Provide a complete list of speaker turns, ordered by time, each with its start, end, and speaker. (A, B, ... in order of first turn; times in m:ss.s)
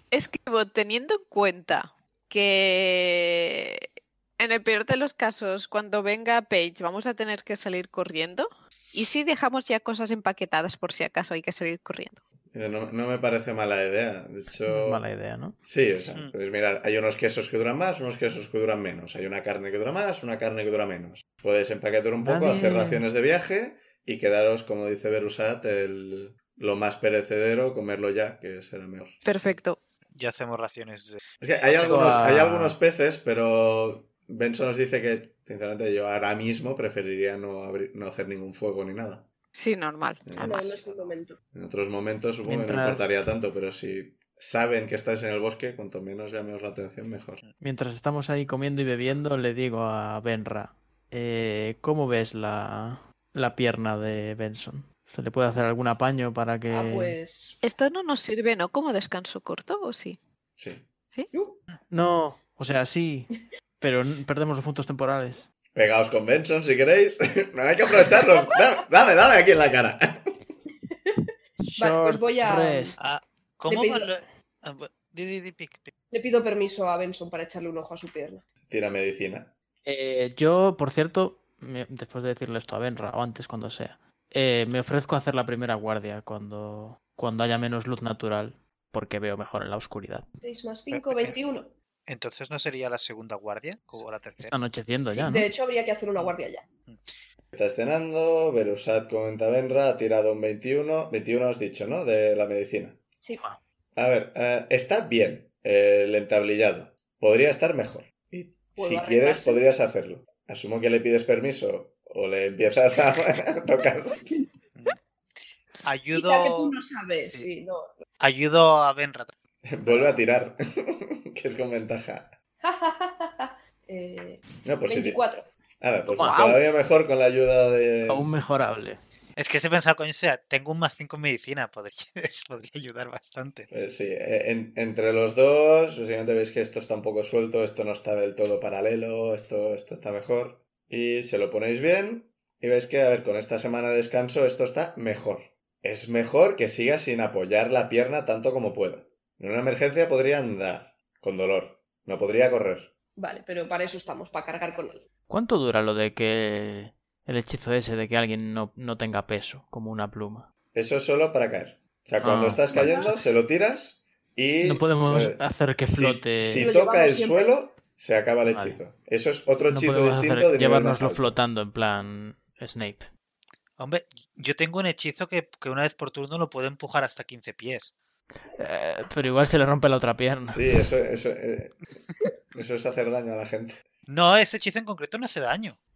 0:00.1-0:03.9 A
0:04.4-0:12.2 A
0:12.5-0:15.0 B
0:14.6-0:15.6 C
0:15.6-0:29.4 B
0:16.0-0:16.3 D
0:22.2-0:23.0 C
0:29.2-0:29.8 A
0:30.1-0:31.2 D
0:31.4-0:39.3 B
0:31.7-0:32.8 C
0:39.5-0:40.3 A
0:40.2-0:40.8 B
0:40.4-0:41.1 D
0:40.4-0:41.4 E
0:41.5-0:47.4 B
0:42.4-0:43.1 C
0:47.6-0:57.2 C
0:56.7-0:57.6 E
0:57.6-1:00.2 A
1:00.6-1:00.8 B
1:01.3-1:01.6 E
1:01.9-1:05.4 C
1:05.7-1:10.3 B
1:10.9-1:13.0 E
1:11.6-1:13.1 C
1:13.0-1:15.9 D
1:13.7-1:14.1 E
1:16.1-1:18.4 E
1:18.7-1:19.5 B
1:19.8-1:30.2 C
1:30.4-1:31.7 E
1:30.9-1:31.3 D
1:32.1-1:34.6 D
1:34.4-1:35.5 C
1:35.1-1:36.6 E
1:37.5-1:43.0 B
1:43.9-1:54.2 B
1:48.8-1:49.6 E
1:55.8-1:56.8 D
1:56.1-1:58.0 E
1:58.2-1:59.3 D
1:59.6-2:02.3 B
2:02.6-2:05.5 E
2:04.6-2:05.2 B
2:05.8-2:08.3 B
2:06.1-2:06.6 C
2:06.2-2:06.6 A
2:08.0-2:09.0 C
2:09.4-2:13.7 D
2:13.7-2:32.9 B
2:33.2-2:35.0 E
2:35.3-2:40.5 C
2:40.7-2:51.4 B
2:42.2-2:43.1 C
2:42.7-2:43.1 E
2:44.6-2:46.7 C
2:46.6-2:47.5 E
2:48.5-2:48.8 C
2:49.7-2:53.1 C
2:53.8-2:57.9 D
2:58.6-3:00.6 C
3:00.5-3:01.8 B
3:02.5-3:03.8 B
3:04.1-3:05.8 D